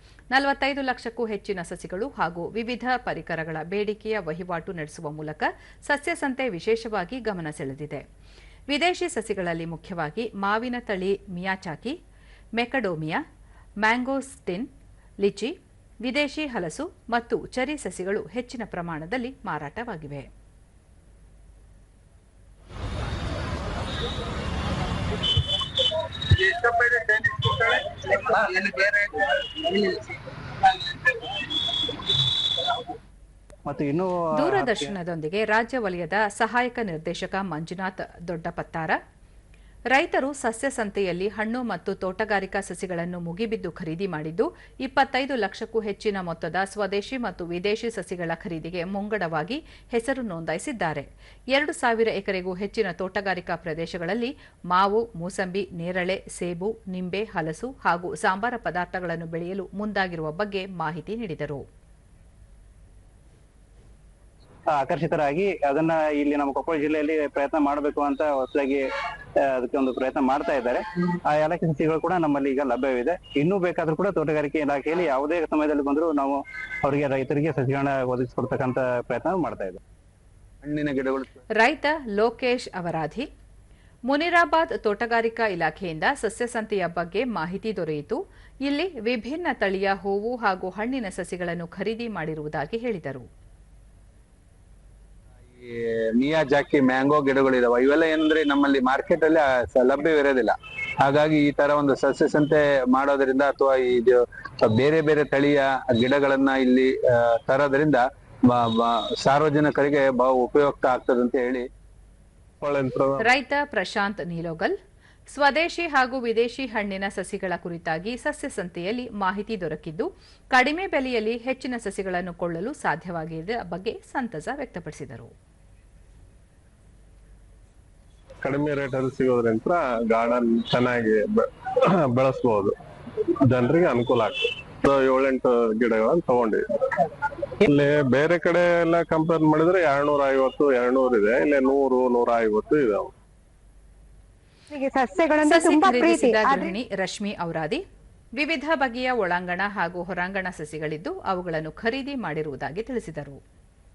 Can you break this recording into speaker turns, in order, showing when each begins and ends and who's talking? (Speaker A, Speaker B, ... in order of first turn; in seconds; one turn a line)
Speaker A: 0.3-8.0
Speaker A: 8.7-12.0
Speaker A: 12.6-13.2
Speaker A: 13.8-14.7
Speaker A: 15.2-20.3
Speaker B: 26.3-30.1
Speaker C: 33.7-34.9
Speaker A: 34.4-39.0
Speaker A: 39.9-61.6
Speaker C: 64.7-68.8
Speaker C: 69.4-79.8
Speaker B: 80.6-81.3
Speaker A: 81.6-83.3
Speaker A: 84.1-93.3
Speaker B: 95.6-111.7
Speaker D: 112.6-113.3
Speaker A: 113.2-114.7
Speaker A: 115.3-125.3
Speaker D: 128.4-131.5
Speaker D: 132.0-132.8
Speaker D: 133.4-136.6
Speaker D: 137.7-143.1
Speaker E: 144.7-146.7
Speaker A: 145.4-147.8
Speaker A: 148.4-153.4